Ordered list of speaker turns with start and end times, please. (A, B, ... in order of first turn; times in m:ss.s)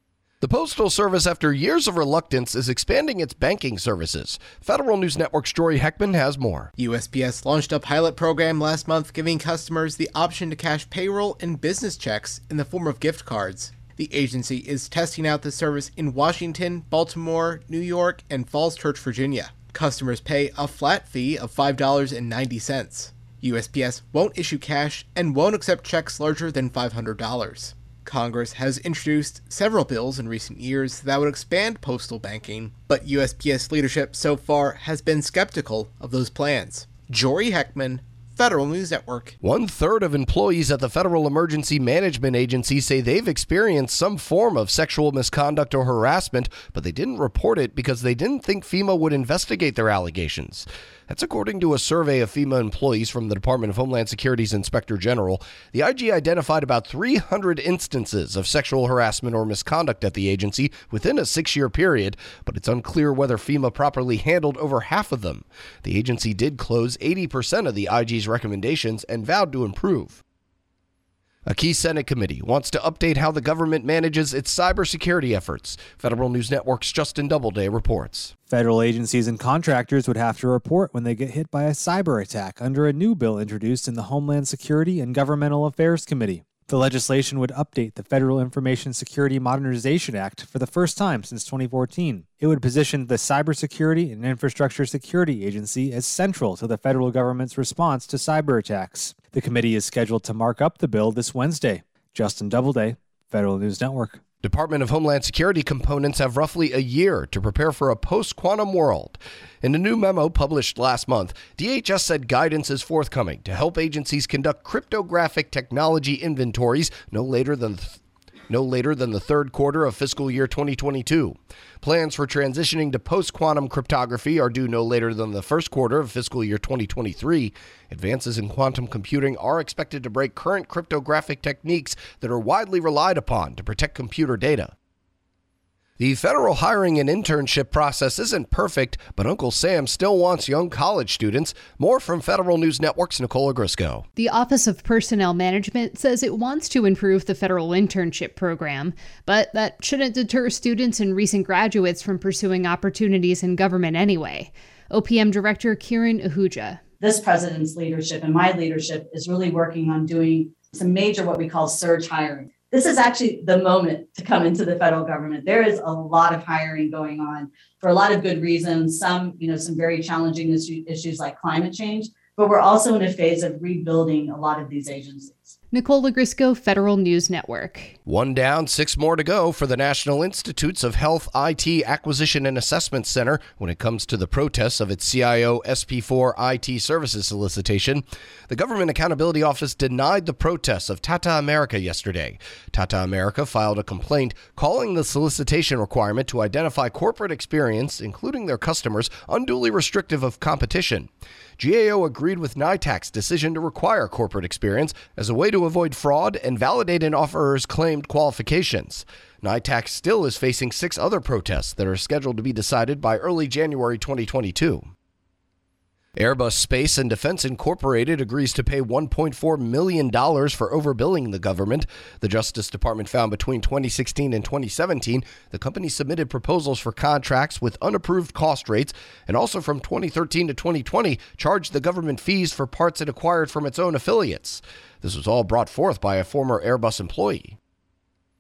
0:00.4-0:06.7 A
0:06.8-0:39.4 B
0:39.4-1:10.2 A
1:11.5-1:18.3 A
1:18.5-1:44.2 C
1:44.4-2:14.7 A
2:16.0-2:24.1 A
2:24.2-2:36.8 D
2:37.0-2:55.6 E
2:55.7-2:58.0 D
2:58.1-3:34.9 A
3:36.2-3:57.6 A